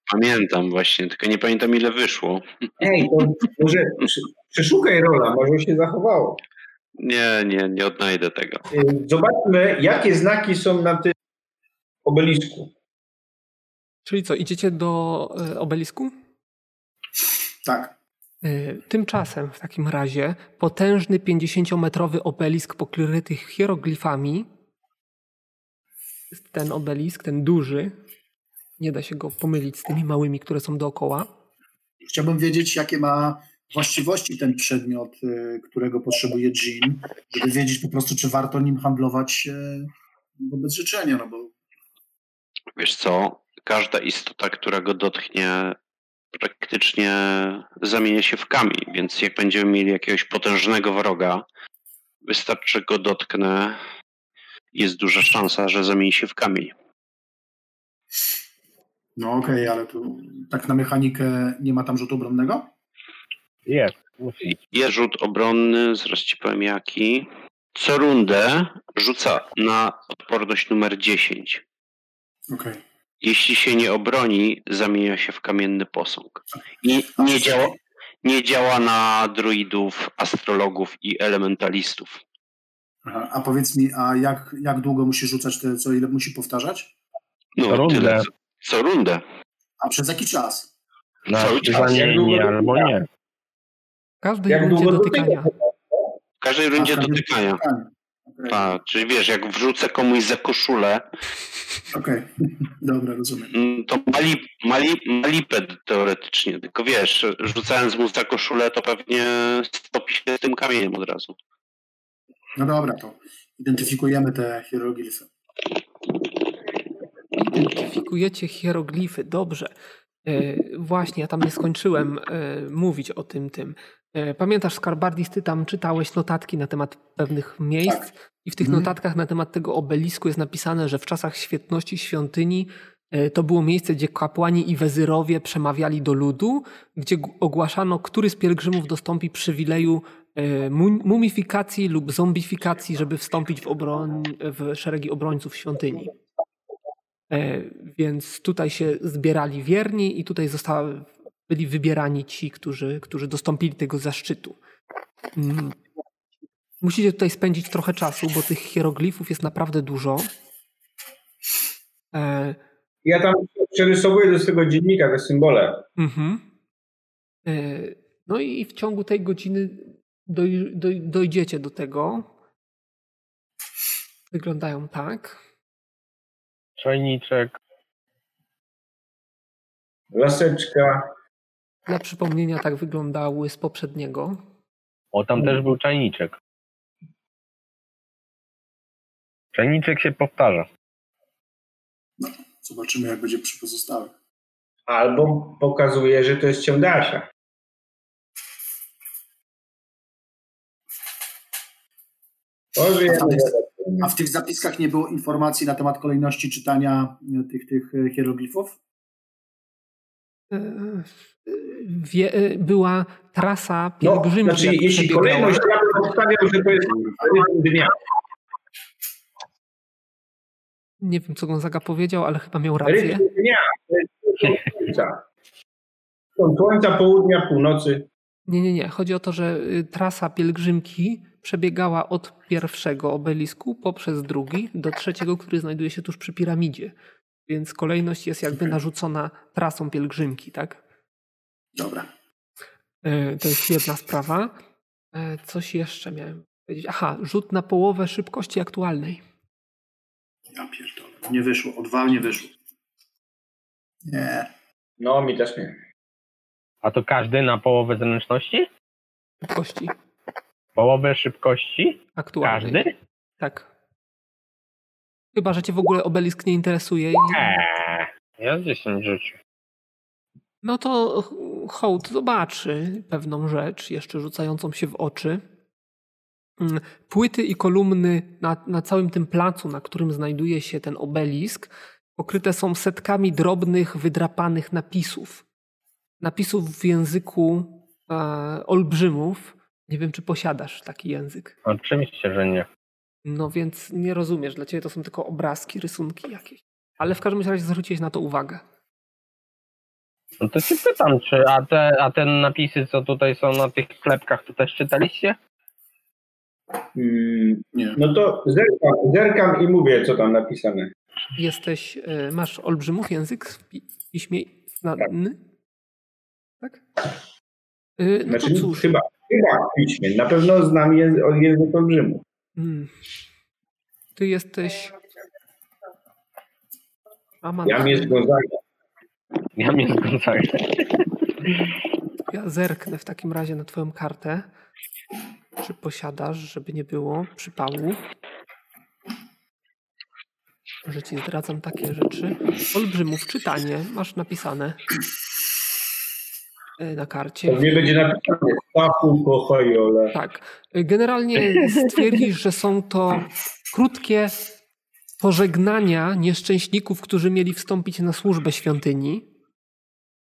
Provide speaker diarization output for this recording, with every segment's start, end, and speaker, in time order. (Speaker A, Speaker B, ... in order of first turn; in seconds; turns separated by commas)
Speaker A: 0.1-2.5, Speaker B: 2.8-6.4, Speaker A: 7.0-8.7, Speaker B: 8.7-11.1, Speaker B: 12.1-12.7, Speaker C: 14.1-16.1, Speaker D: 17.6-17.9, Speaker C: 18.4-24.5, Speaker C: 26.3-27.9, Speaker C: 28.8-31.3, Speaker D: 32.0-41.5, Speaker A: 42.8-45.8, Speaker A: 46.3-51.4, Speaker A: 52.2-53.8, Speaker A: 54.7-56.7, Speaker D: 59.2-62.7, Speaker E: 63.7-64.6, Speaker A: 64.7-71.6, Speaker D: 72.5-72.8, Speaker A: 73.2-82.2, Speaker D: 77.2-77.7, Speaker D: 83.0-86.9, Speaker A: 87.6-89.2, Speaker E: 87.7-88.3, Speaker D: 89.8-90.7, Speaker E: 91.3-93.1, Speaker A: 91.4-92.0, Speaker B: 91.7-92.9, Speaker C: 94.2-95.5, Speaker B: 94.5-96.1, Speaker A: 96.4-97.6, Speaker D: 96.8-98.6, Speaker A: 98.5-101.0, Speaker D: 101.9-103.5, Speaker A: 103.5-111.3, Speaker D: 112.6-115.3, Speaker C: 117.4-119.7, Speaker C: 120.2-146.2, Speaker D: 128.6-128.9, Speaker C: 147.3-154.6, Speaker C: 155.4-155.8, Speaker C: 156.8-160.3, Speaker C: 162.1-162.6, Speaker B: 163.0-165.9, Speaker C: 166.0-166.4, Speaker C: 167.5-172.3, Speaker C: 174.3-175.4, Speaker E: 176.8-177.6, Speaker B: 180.1-181.1, Speaker C: 181.9-184.4, Speaker E: 185.1-186.4, Speaker E: 189.5-190.7, Speaker D: 192.2-194.1, Speaker B: 194.9-197.3, Speaker B: 202.8-204.1, Speaker D: 203.1-208.8, Speaker C: 210.5-215.7, Speaker B: 214.0-217.9, Speaker C: 221.0-223.2, Speaker B: 222.8-225.2, Speaker B: 226.4-228.1, Speaker C: 228.5-236.9, Speaker C: 237.5-240.8, Speaker D: 241.8-242.1, Speaker C: 243.0-244.6, Speaker C: 245.1-249.2, Speaker D: 250.5-252.6, Speaker D: 254.0-254.5, Speaker B: 255.0-255.8, Speaker E: 256.8-258.7, Speaker C: 259.4-259.9, Speaker E: 260.8-262.9, Speaker C: 262.2-262.8, Speaker C: 263.4-263.7, Speaker C: 265.3-267.5, Speaker E: 267.3-269.4, Speaker C: 270.6-275.4, Speaker C: 276.6-285.4, Speaker C: 286.2-291.6, Speaker E: 291.7-292.7, Speaker C: 293.2-298.6, Speaker E: 300.4-305.4, Speaker B: 306.9-310.9, Speaker D: 307.7-308.0, Speaker C: 311.4-315.4, Speaker C: 318.0-318.9, Speaker B: 318.3-322.2, Speaker C: 322.6-322.9, Speaker C: 324.2-324.9, Speaker C: 327.4-328.2, Speaker B: 327.6-328.6, Speaker E: 329.6-331.7, Speaker C: 332.3-334.5, Speaker C: 335.6-338.0, Speaker C: 340.9-344.8, Speaker C: 346.8-347.8, Speaker B: 347.5-350.1, Speaker C: 350.1-354.4, Speaker C: 355.2-359.2